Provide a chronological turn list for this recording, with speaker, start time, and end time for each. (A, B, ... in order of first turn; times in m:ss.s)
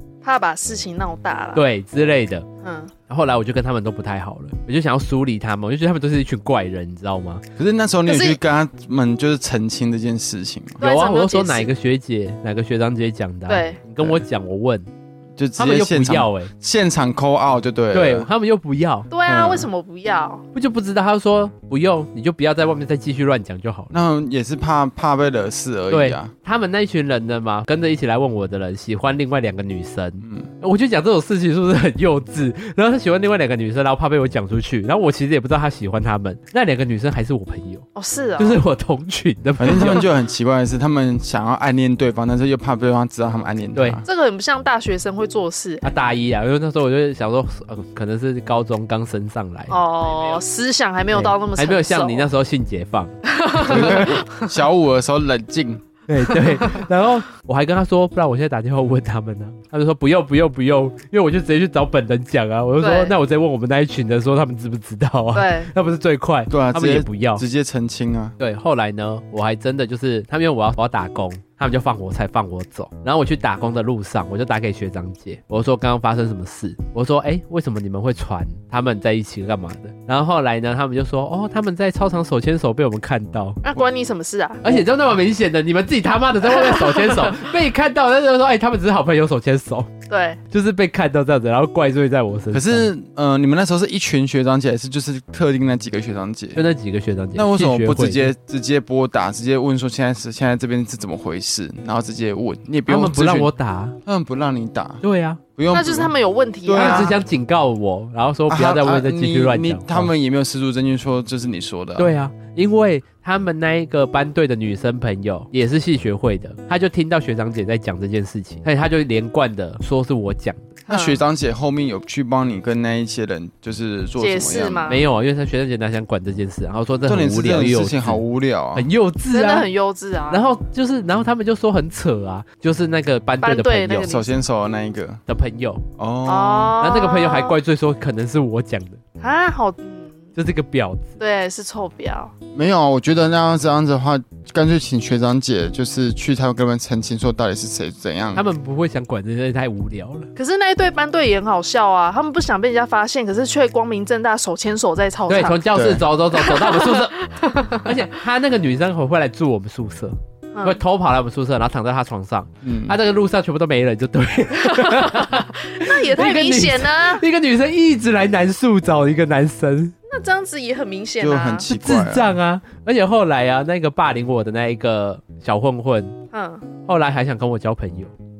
0:00.2-0:01.6 A
0:01.5-0:02.5 B
0:02.6-0:02.9 A
0:03.1-0:07.4 B
0:07.6-0:10.8 C
0:08.0-0:08.4 A
0:10.8-0:11.7 A
0:10.8-0:14.9 B
0:13.5-0:13.8 A
0:15.4-0:18.3 C
0:15.6-0:16.5 B
0:17.9-0:19.1 B
0:19.1-0:20.4 A
0:19.3-0:19.7 C
0:20.5-0:23.9 B
0:23.9-0:26.3 C
0:25.9-0:37.8 B
0:30.2-0:30.5 C
0:37.9-0:38.6 A
0:38.4-0:40.1 B
0:39.6-0:44.0 C
0:43.8-0:44.0 B
0:44.0-0:45.9 A
0:45.8-0:50.4 B
0:49.7-0:52.3 A
0:51.1-0:54.1 B
0:53.2-0:54.5 A
0:53.6-0:55.8 C
0:56.1-1:07.4 B
0:56.4-0:56.8 A
1:02.8-1:03.2 A
1:05.3-1:05.7 A
1:06.5-1:08.4 C
1:08.4-1:23.6 B
1:23.6-1:24.6 A
1:24.6-1:29.9 B
1:26.5-1:27.3 A
1:30.1-1:30.4 A
1:30.5-1:32.9 B
1:32.5-1:36.6 C
1:36.6-1:38.3 B
1:37.3-1:43.5 C
1:42.9-1:44.0 B
1:44.0-1:45.0 C
1:45.0-1:45.4 B
1:45.6-1:46.1 C
1:45.7-1:47.1 A
1:46.6-1:47.2 C
1:46.8-1:50.1 B
1:48.5-1:52.1 C
1:52.0-2:00.8 B
2:00.9-2:01.2 A
2:00.9-2:05.0 C
2:04.2-2:05.0 A
2:04.9-2:08.2 B
2:07.0-2:08.9 C
2:08.7-2:09.7 B
2:09.3-2:10.5 A
2:10.3-2:14.1 B
2:13.4-2:14.4 A
2:14.0-2:15.2 C
2:15.3-2:15.8 B
2:16.0-2:16.8 C
2:16.2-2:17.6 A
2:16.8-2:19.0 B
2:19.2-2:20.2 A
2:20.4-2:21.2 B
2:21.2-2:22.3 A
2:22.5-2:28.4 C
2:28.3-2:30.3 B
2:30.4-2:35.6 A
2:35.3-2:37.2 B
2:35.7-2:36.0 C
2:36.4-2:38.0 A
2:37.7-2:49.9 B
2:40.5-2:40.8 A
2:42.6-2:43.0 C
2:44.6-2:47.2 A
2:50.1-2:51.6 A
2:51.2-2:52.3 C
2:51.7-2:56.2 B
2:56.3-2:56.6 A
2:56.8-2:58.1 B